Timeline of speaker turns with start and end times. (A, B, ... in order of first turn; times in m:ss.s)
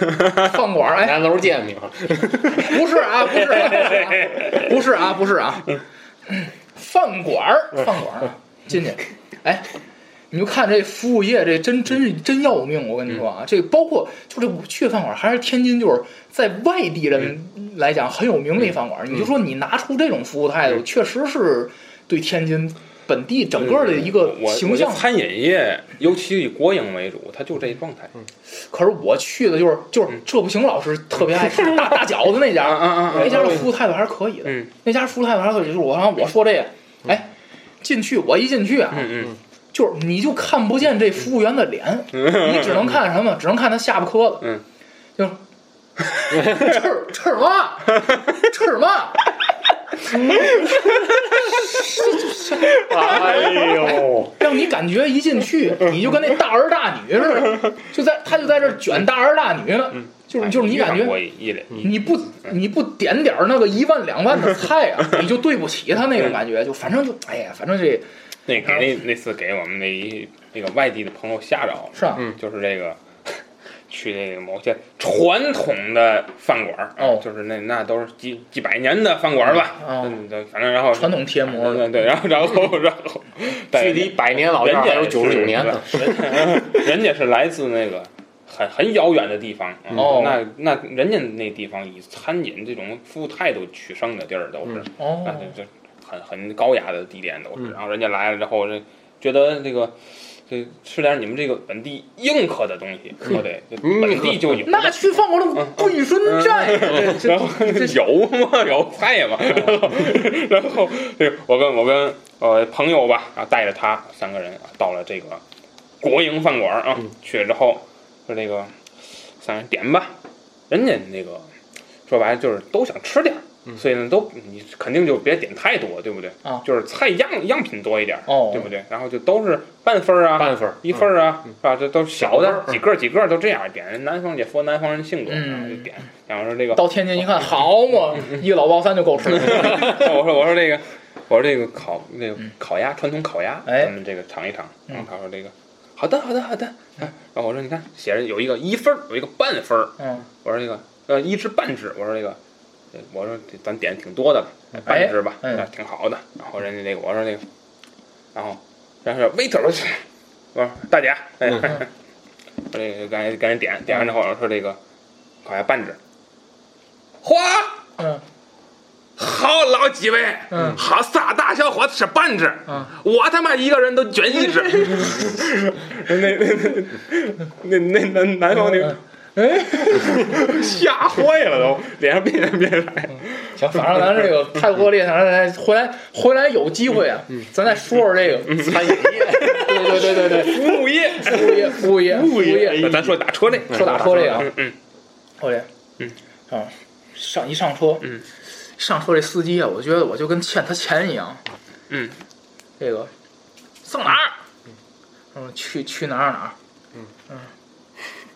0:00.2-0:01.2 A
0:01.0-0:02.8 B
0:02.6-0:05.8 A
0:03.8-0:04.5 C
0:06.3-0:09.7 A
0:10.3-0:25.1 A
0:23.6-0:28.1 C
0:28.7-0:44.5 A
0:32.6-0:33.6 C
0:33.2-0:33.7 B
0:39.0-0:39.3 C
0:42.2-0:42.9 C
0:46.0-0:49.2 A
0:50.1-0:50.4 A
0:51.5-1:01.2 A
0:52.6-0:54.4 B
1:00.4-1:01.9 C
1:01.8-1:08.1 A
1:08.5-1:13.0 C
1:12.0-1:12.3 A
1:13.9-1:40.0 C
1:17.0-1:17.2 A
1:19.6-1:20.2 A
1:20.9-1:21.9 A
1:23.7-1:26.4 B
1:29.9-1:30.4 A
1:35.0-1:35.5 A
1:40.5-1:45.0 C
1:43.3-1:44.7 B
1:44.7-1:48.0 A
1:45.6-1:55.4 C
1:56.0-1:58.7 C
1:59.4-2:00.2 C
2:00.7-2:01.5 C
2:02.1-2:16.8 C
2:08.3-2:08.7 A
2:10.4-2:11.1 B
2:12.2-2:12.8 B
2:15.3-2:15.9 A
2:16.7-2:20.0 A
2:19.3-2:32.4 C
2:23.7-2:24.0 A
2:30.0-2:30.2 A
2:33.0-2:37.4 C
2:34.8-2:35.7 A
2:38.4-2:40.0 C
2:40.5-2:41.9 C
2:42.7-2:44.8 C
2:45.4-2:46.0 C
2:47.2-2:47.8 C
2:48.0-2:48.2 A
2:49.2-2:59.0 C
2:50.5-2:50.8 A
2:58.6-3:00.3 A
2:59.9-3:04.1 C
3:03.6-3:12.9 A
3:08.5-3:10.8 B
3:09.1-3:11.8 C
3:11.5-3:14.5 B
3:12.7-3:14.8 C
3:13.7-3:14.5 A
3:15.4-3:15.7 A
3:16.5-3:18.1 A
3:18.8-3:21.4 A
3:21.9-3:22.2 C
3:22.8-3:23.1 A
3:23.8-3:24.4 A
3:25.3-3:26.6 A